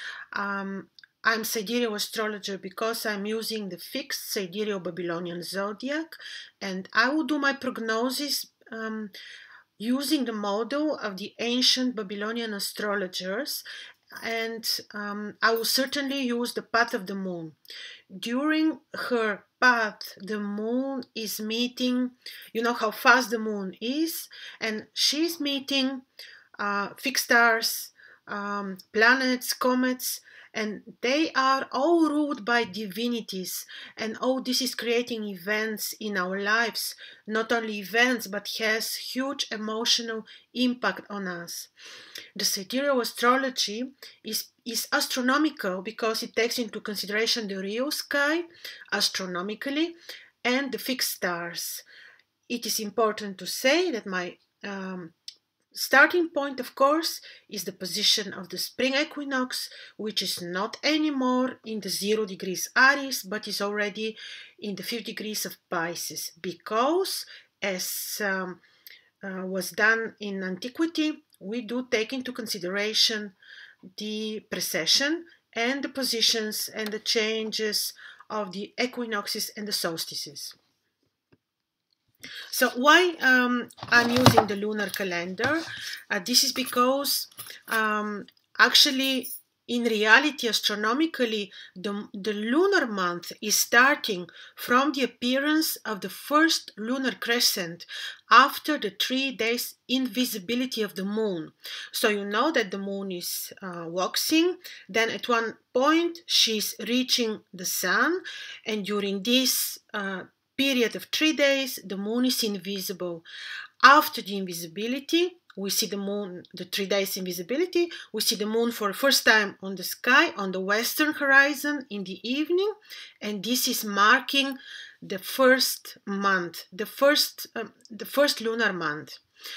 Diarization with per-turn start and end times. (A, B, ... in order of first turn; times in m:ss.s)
0:00.3-0:09.1 A
0:09.8-0:13.6 A
0:14.2-0:17.6 A
0:18.1-0:26.0 A
0:26.6-0:41.7 A
0:42.4-0:51.8 A
0:52.5-0:55.1 A
0:55.7-1:08.6 A
1:09.2-1:13.3 A
1:14.0-1:20.6 A
1:22.5-1:53.2 A
1:53.8-2:09.2 A